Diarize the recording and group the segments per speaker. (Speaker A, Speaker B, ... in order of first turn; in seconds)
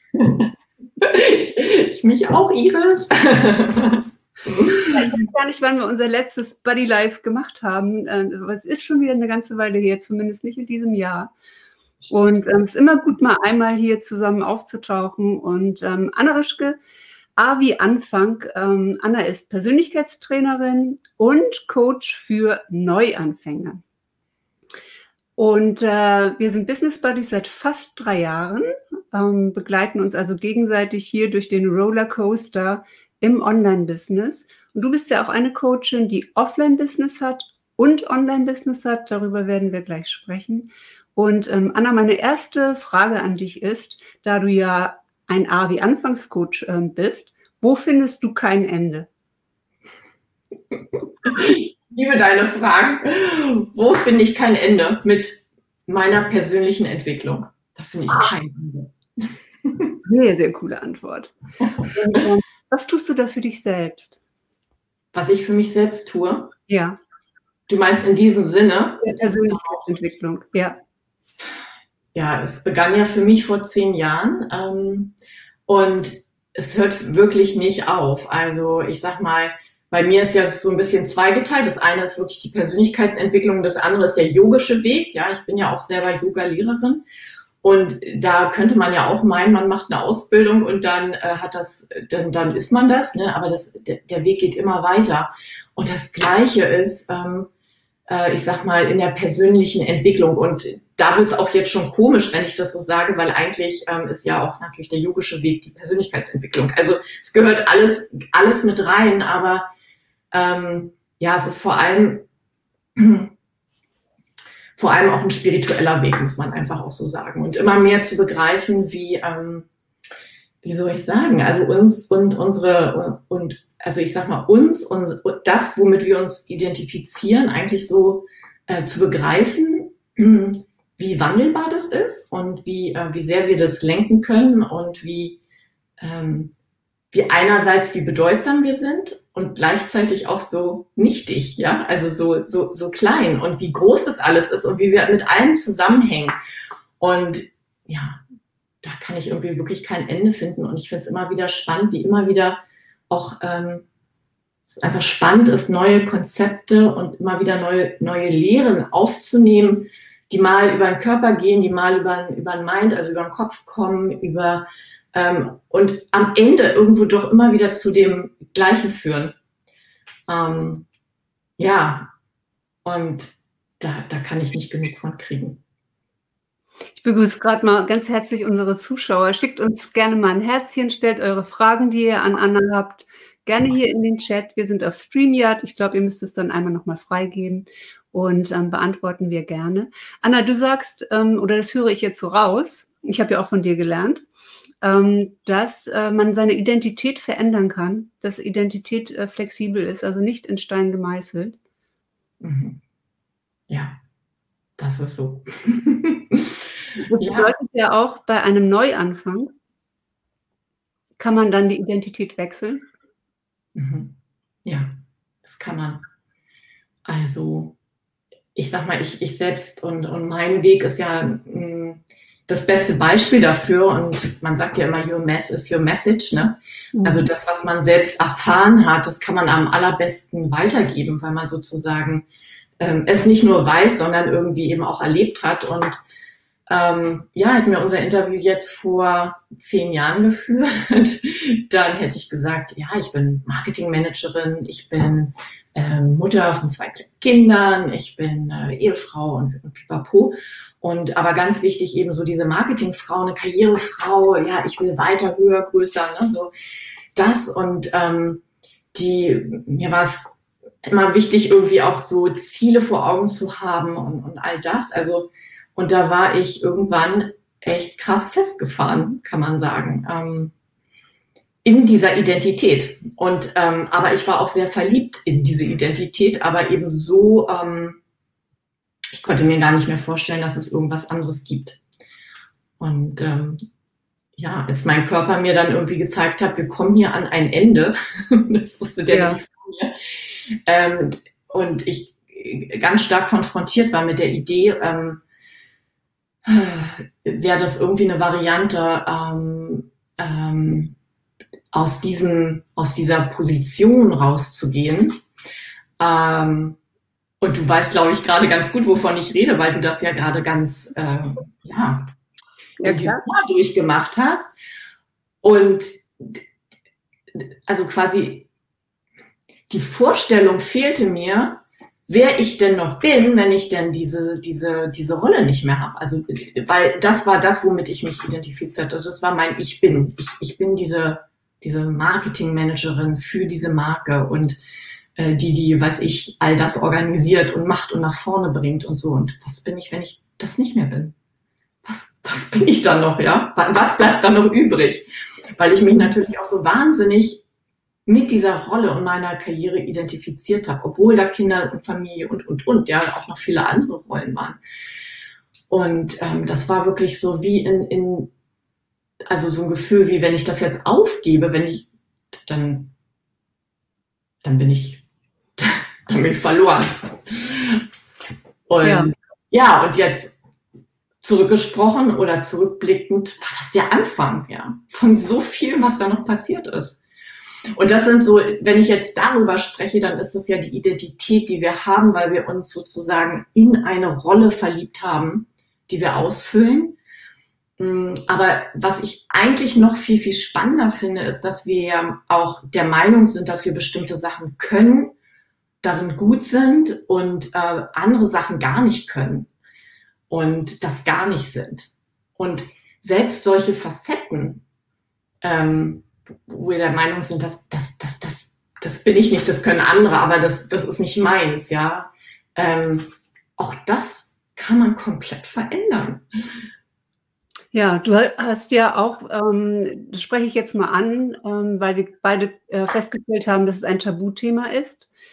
Speaker A: 0.1-5.1, 51.2-59.9, 65.1-66.5, 67.7-69.8, 72.1-75.1, 75.7-87.0, 87.6-97.5, 98.1-109.7, 110.3-112.3, 113.0-113.3, 114.8-119.7, 120.6-135.4, 136.0-136.5, 137.1-146.3, 147.0-148.2, 148.8-153.8, 154.7-169.3, 170.3-170.8, 171.6-172.1, 172.8-175.6, 202.4-202.8, 203.7-204.0, 204.8-207.5, 213.7-214.9, 215.4-216.0, 217.1-217.8, 218.5-232.3, 232.8-235.9, 236.7-256.5, 257.1-258.4, 258.9-260.2, 260.8-270.5, 271.6-278.0, 279.1-281.8, 282.8-283.6, 284.4-290.0, 290.6-295.2, 296.4-300.9, 301.7-305.2, 306.0-306.8, 307.4-312.1, 312.8-314.5, 315.4-316.4, 317.3-318.5, 319.7-334.6, 335.2-341.1, 341.8-347.4, 348.1-354.6, 355.7-358.3, 359.3-361.9, 362.4-362.9, 364.4-365.0, 365.6-367.9, 368.7-370.4, 371.2-377.0, 377.7-387.0, 387.8-395.1, 395.8-399.5, 400.3-404.6, 405.4-416.2
Speaker B: 4.7-11.3, 12.1-16.8, 17.4-23.8, 25.4-49.1, 60.0-64.2, 66.7-67.0, 69.0-70.8, 176.9-194.2, 194.8-201.6, 207.1-209.5, 211.2-212.9, 226.9-227.3, 289.1-289.4, 312.8-313.2, 368.8-369.1, 417.7-425.1